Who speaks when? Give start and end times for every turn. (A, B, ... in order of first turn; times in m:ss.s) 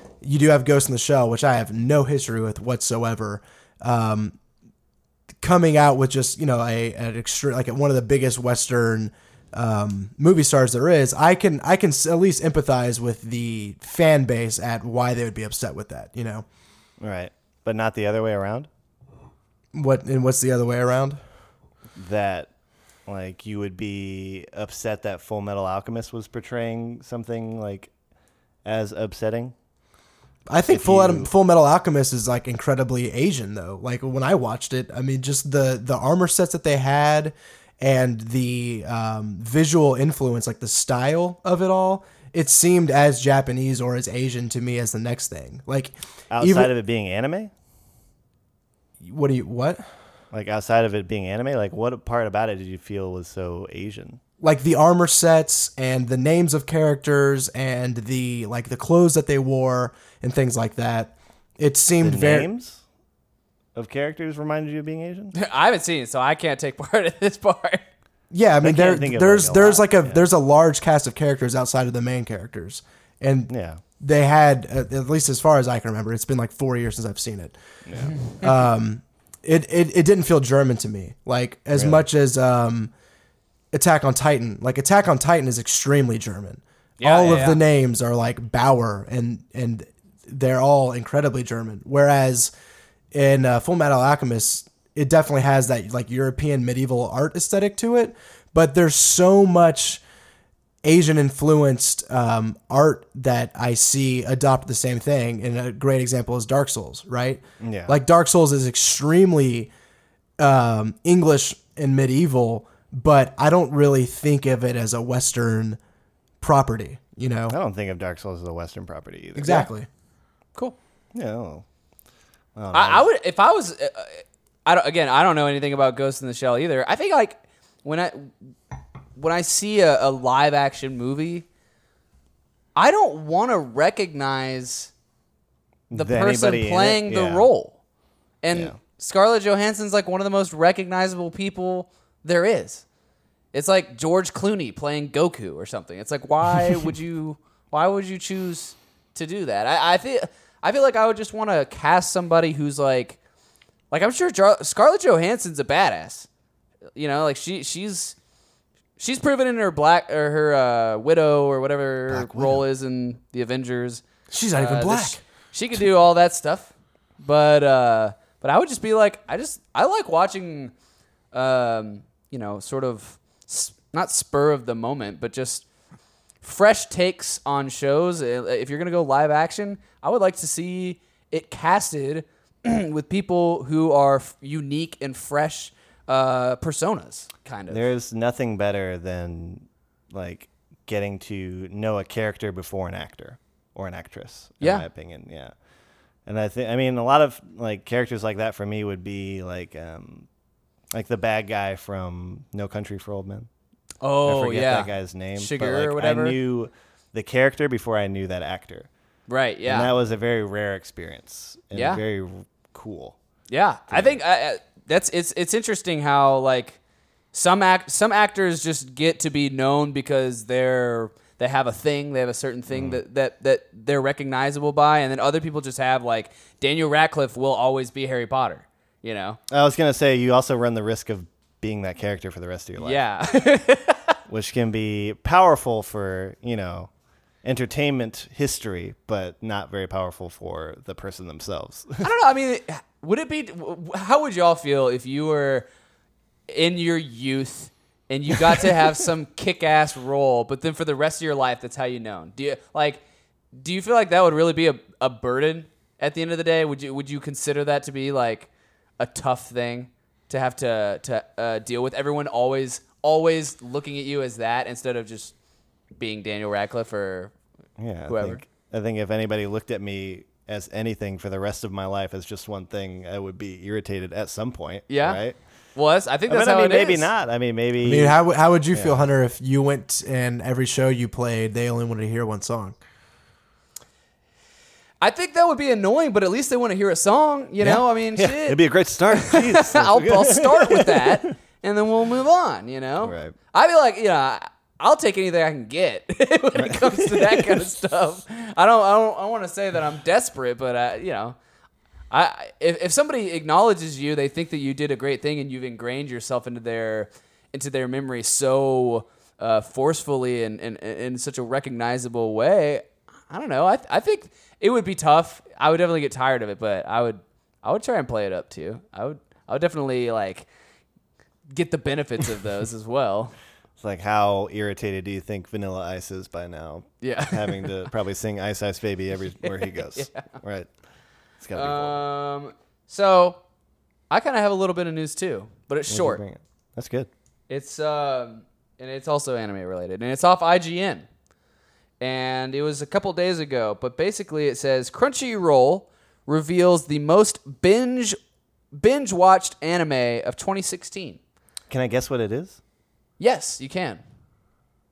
0:00.2-0:04.4 A
0:05.4-0:16.4 A
0:17.0-0:18.7 B
0:19.7-0:21.2 A
0:22.0-0:22.5 B
0:23.1-0:27.9 B
0:28.6-0:29.5 B
0:30.5-0:46.7 A
0:30.7-0:31.3 B
0:46.3-0:47.5 B
0:49.0-0:49.8 A
0:50.3-0:54.2 B
0:54.4-1:02.5 A
1:02.0-1:02.8 B
1:03.8-1:05.3 B
1:05.3-1:07.8 C
1:08.3-1:17.5 A
1:08.6-1:10.2 B
1:13.5-1:13.8 B
1:17.9-1:18.2 B
1:18.1-1:18.4 C
1:18.4-1:22.9 A
1:21.7-1:22.0 B
1:23.7-1:32.5 A
1:27.0-1:27.6 C
1:33.1-1:40.0 A
1:40.8-1:49.7 A
1:47.6-1:48.0 B
1:50.4-1:55.8 A
1:56.4-1:57.6 A
1:57.5-1:59.7 B
1:59.4-1:59.9 A
2:01.1-2:01.6 B
2:02.6-2:03.0 B
2:02.7-2:08.5 C
2:09.2-2:11.4 C
2:12.8-2:14.9 C
2:15.9-2:17.5 B
2:15.9-2:17.8 C
2:18.4-2:22.8 C
2:23.5-2:33.2 C
2:33.9-2:36.3 C
2:37.0-2:38.2 C
2:39.0-2:44.0 C
2:42.1-2:42.6 B
2:44.3-2:45.2 A
2:44.5-2:50.7 C
2:51.3-2:55.6 C
2:56.4-3:07.8 C
3:07.7-3:15.5 B
3:14.6-3:14.8 C
3:16.2-3:20.3 B
3:20.9-3:23.5 B
3:24.0-3:26.4 C
3:24.2-3:28.9 B
3:29.3-3:29.9 C
3:29.6-3:33.2 B
3:31.7-3:32.0 C
3:33.5-3:36.8 C
3:33.9-3:34.2 B
3:37.3-3:49.4 C
3:42.7-3:43.0 B
3:49.5-3:53.0 B
3:52.8-3:54.2 C
3:54.3-3:56.9 B
3:57.4-4:02.1 B
4:02.0-4:05.7 C
4:06.5-4:13.0 C
4:13.5-4:25.3 C
4:26.0-4:27.3 C
4:27.8-4:35.4 B
4:28.1-4:28.4 C
4:34.9-4:35.2 C
4:35.7-4:37.1 C
4:36.3-4:38.2 B
4:37.8-4:42.8 A
4:38.7-4:39.0 B
4:45.0-4:48.6 C
4:47.6-4:51.3 B
4:49.1-5:01.4 C
4:53.0-4:53.3 B
4:56.6-4:57.6 B
5:02.1-5:20.5 C
5:21.5-5:23.3 C
5:23.8-5:30.7 B
5:27.0-5:27.9 C
5:29.4-5:30.3 C
5:31.4-5:32.0 B
5:31.5-5:33.4 C
5:34.1-5:36.2 C
5:35.9-5:37.1 B
5:37.5-5:41.1 C
5:42.0-5:48.2 C
5:48.7-5:51.2 C
5:51.7-5:52.6 B
5:53.2-5:54.0 C